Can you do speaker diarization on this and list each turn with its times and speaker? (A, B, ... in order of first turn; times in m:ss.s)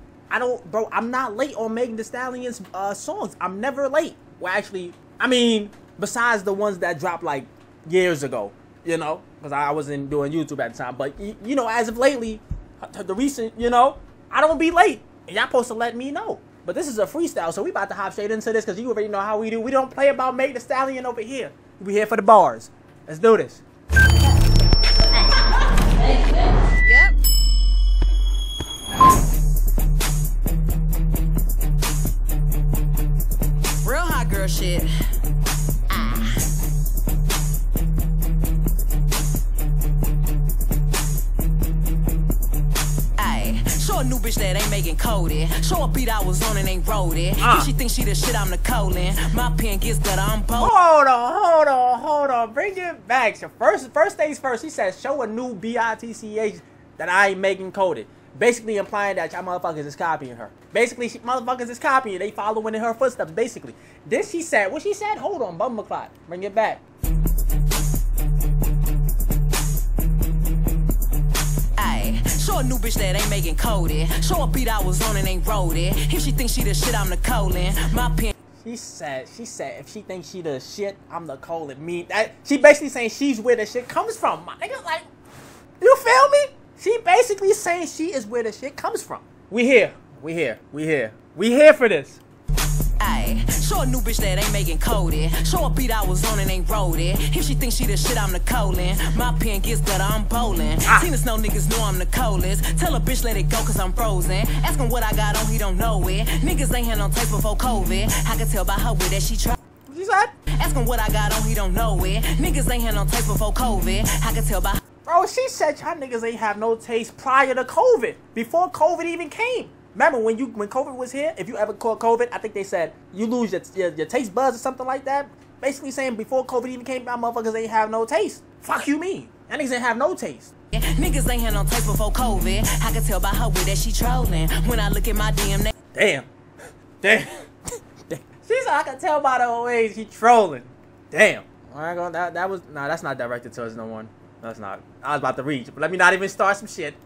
0:00.3-0:23.6 A
0:26.8-0:27.2 B
0:33.8-0:34.9 B
0:35.9-0:36.4 B
0:43.2-0:50.7 B
0:47.4-0:47.7 A
0:50.6-1:06.8 A
1:11.8-1:18.3 B
1:18.6-1:25.1 A
1:25.8-1:32.2 A
1:33.0-1:49.6 B
1:49.9-1:50.3 A
1:50.6-1:54.8 B
1:55.0-2:10.5 A
2:10.7-2:15.8 B
2:15.9-2:16.3 A
2:17.0-2:27.0 A